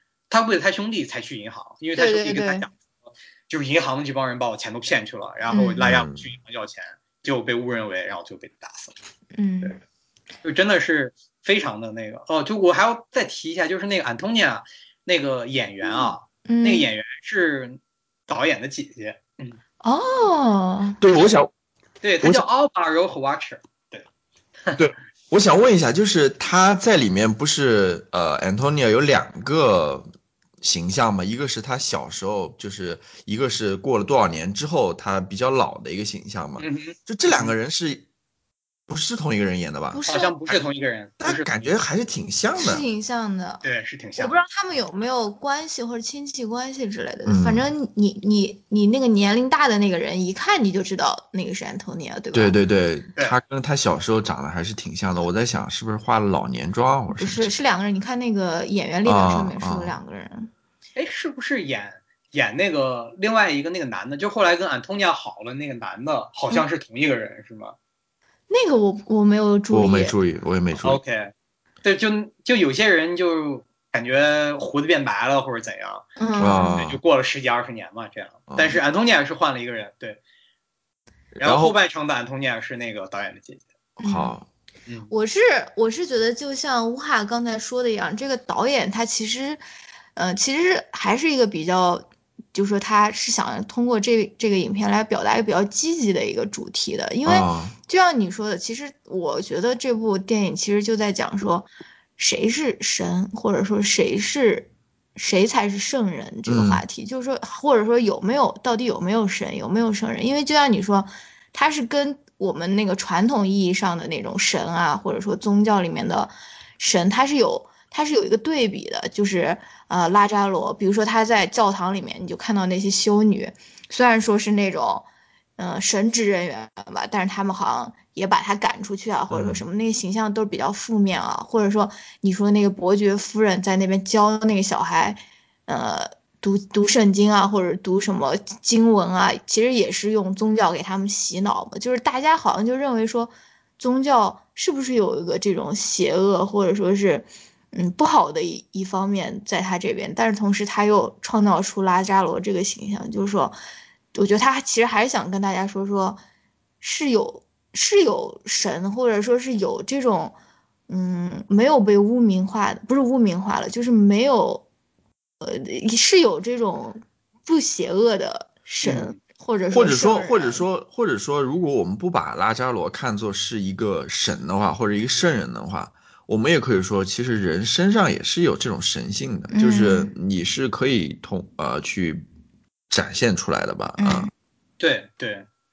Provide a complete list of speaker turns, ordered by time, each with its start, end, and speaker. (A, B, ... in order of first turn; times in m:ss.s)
0:00.3-0:08.9 A
0:02.0-0:02.7 B
0:05.5-0:05.9 B
0:05.8-0:06.3 C
0:09.4-0:09.8 B
0:10.4-0:19.6 A
0:15.8-0:16.9 B
0:19.8-0:21.0 B
0:21.0-0:21.5 C
0:22.0-0:24.1 A
0:24.8-0:30.1 C
0:30.6-0:38.1 C
0:36.6-0:37.5 A
0:38.9-0:40.6 C
0:39.9-0:40.4 B
0:40.1-0:41.5 A
0:41.2-0:42.8 C
0:42.6-0:43.6 B
0:43.6-0:44.4 A
0:44.2-0:52.6 B
0:47.3-0:47.7 C
0:52.3-0:57.6 C
0:57.1-1:00.5 B
0:59.0-1:00.0 C
1:01.0-1:07.8 A
1:08.5-1:10.1 B
1:09.7-1:11.0 C
1:10.8-1:11.3 A
1:11.8-1:20.2 A
1:16.2-1:16.9 B
1:16.4-1:17.0 C
1:18.5-1:18.8 C
1:21.4-1:21.8 C
1:21.4-1:23.6 A
1:24.0-1:24.5 C
1:24.0-1:24.4 B
1:25.1-1:29.6 B
1:30.2-2:05.1 B
1:37.2-1:37.8 C
1:46.5-1:46.8 C
2:05.6-2:33.6 B
2:09.3-2:09.6 C
2:34.1-2:36.2 B
2:36.8-2:40.4 B
2:40.9-2:44.6 B
2:45.4-2:50.7 B
2:48.8-2:49.2 A
2:49.7-3:02.2 C
2:59.5-3:00.2 B
3:02.9-3:04.3 C
3:04.0-3:04.3 B
3:04.8-3:05.5 A